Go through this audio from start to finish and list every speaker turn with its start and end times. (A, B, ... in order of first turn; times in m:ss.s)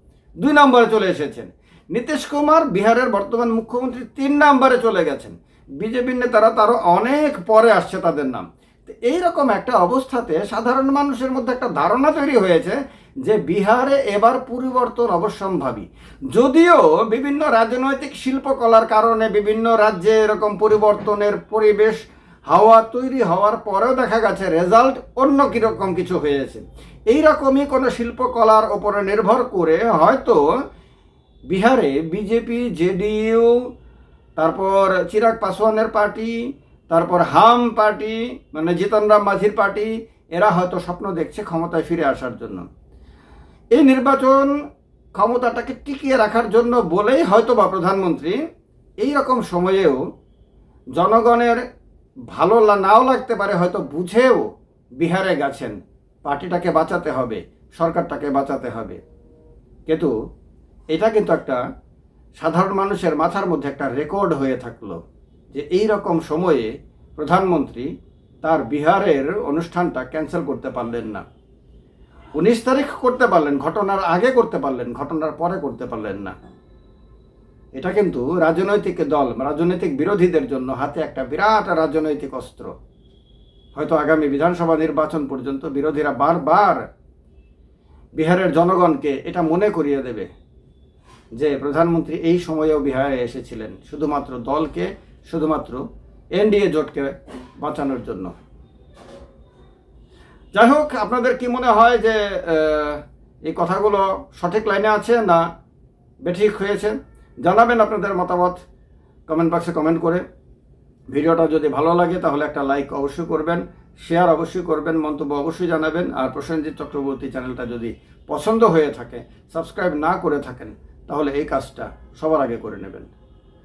0:00.4-0:30.4 A
0:31.5-0:33.6 A
0:34.4-0:36.3 A
0:36.9-0:42.6 A
0:43.7-0:44.5 A
0:45.1-0:48.4 A
0:49.0-0:50.0 A
0:51.0-0:51.6 A
0:52.3-0:54.4 A
0:55.0-0:59.0 A
1:00.9-1:01.6 A
1:02.4-1:05.0 A
1:05.5-1:07.9 A
1:08.4-1:11.2 A
1:12.4-1:16.3 A
1:17.8-1:22.7 A
1:23.7-1:26.8 A
1:28.2-1:30.3 A
1:31.4-1:35.8 A
1:36.4-1:38.3 A
1:40.5-1:45.4 A
1:46.2-1:48.6 A
1:49.3-1:50.2 A
1:51.1-2:03.1 A